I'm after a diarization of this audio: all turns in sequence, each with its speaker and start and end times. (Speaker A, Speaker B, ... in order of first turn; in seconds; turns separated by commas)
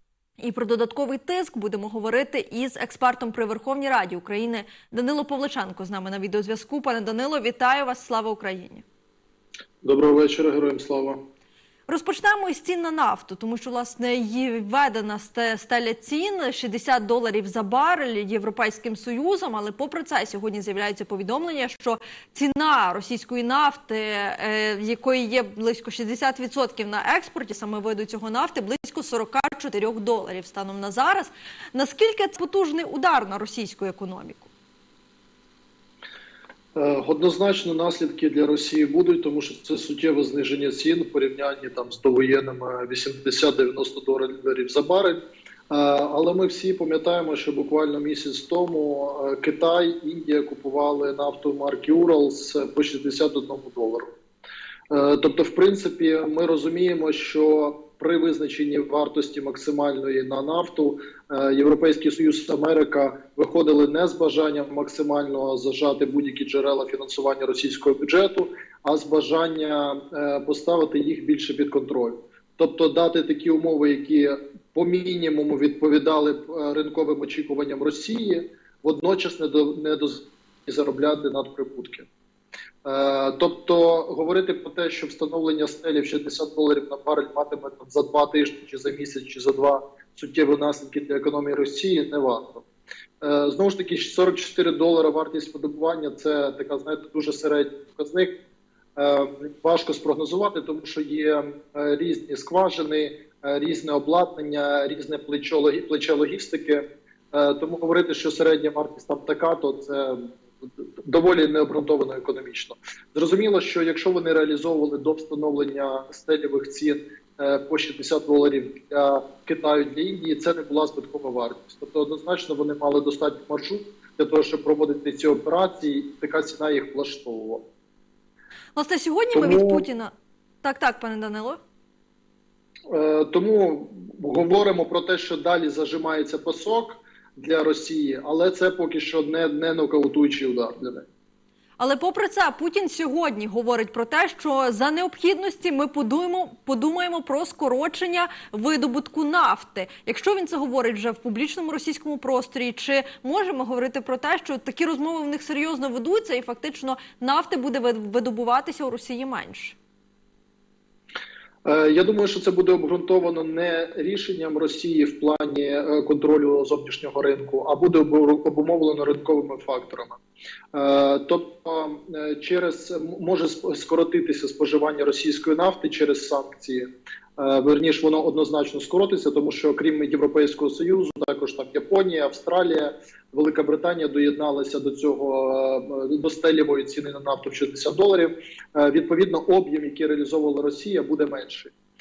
Speaker A: 0.4-8.8, Speaker B: 9.8-11.2, Speaker A: 11.9-34.5, Speaker B: 36.7-54.1, Speaker B: 54.9-82.1, Speaker B: 82.8-92.6, Speaker B: 93.2-98.3, Speaker B: 99.0-127.6, Speaker A: 128.8-130.1, Speaker B: 129.3-129.8, Speaker A: 130.6-131.6, Speaker B: 132.9-141.1, Speaker A: 141.8-159.8, Speaker B: 161.6-170.2, Speaker B: 170.7-191.7